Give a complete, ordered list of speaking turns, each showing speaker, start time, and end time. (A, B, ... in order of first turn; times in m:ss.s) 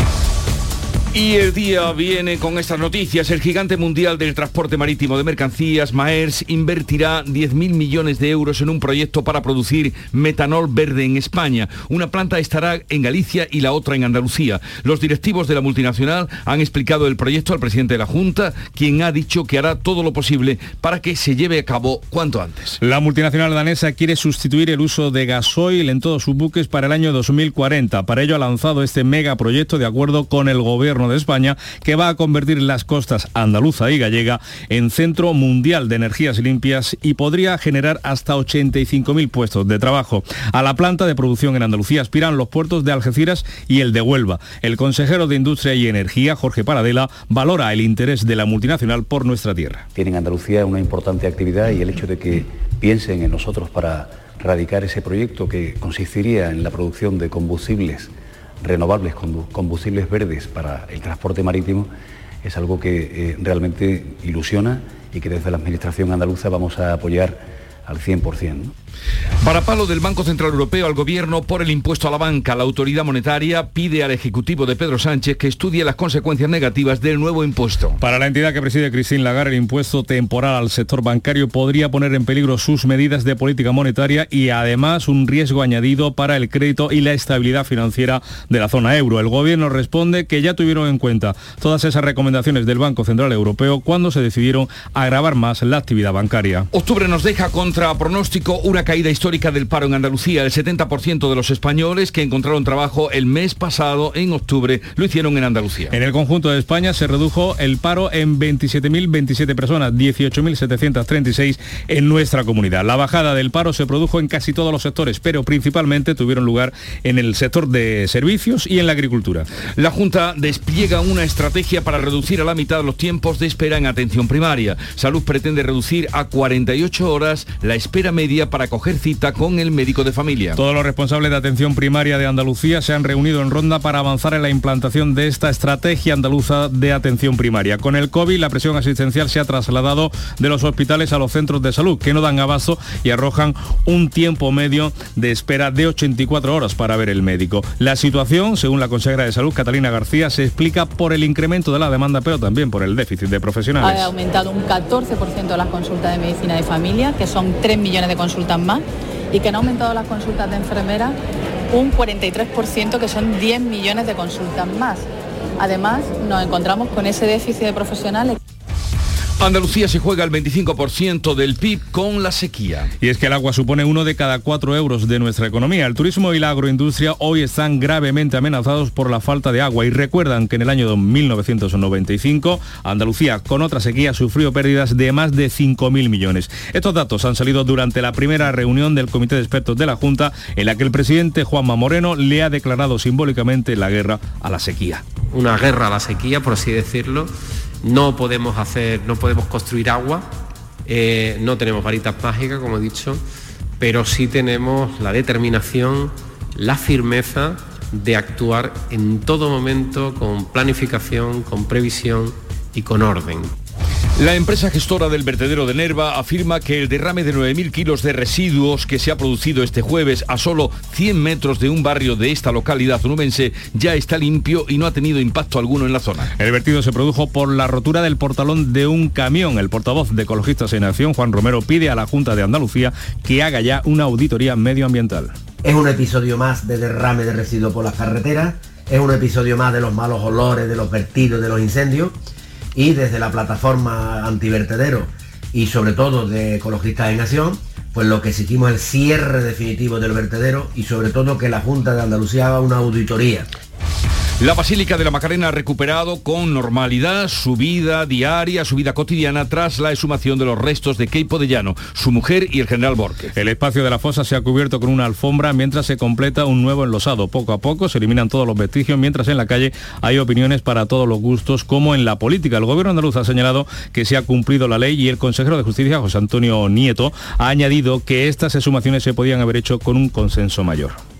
0:01.1-0:22.8 A
0:22.8-0:49.8 B
0:49.9-1:01.9 C
1:02.4-1:08.7 C
1:09.4-1:18.0 A
1:18.0-1:36.7 B
1:36.7-1:45.9 A
1:45.9-1:59.4 B
1:59.8-2:10.6 A
2:10.6-2:34.1 B
2:33.8-2:41.2 D
2:41.7-2:48.4 D
2:49.4-2:52.9 A
2:53.0-3:15.0 B
3:15.3-3:17.3 E
3:17.8-3:20.3 E
3:20.8-3:23.2 E
3:23.8-3:33.5 E
3:34.2-3:46.3 A
3:46.4-3:55.3 B
3:55.6-4:02.1 F
4:02.7-4:13.5 F
4:14.4-4:23.3 A
4:23.4-4:41.0 B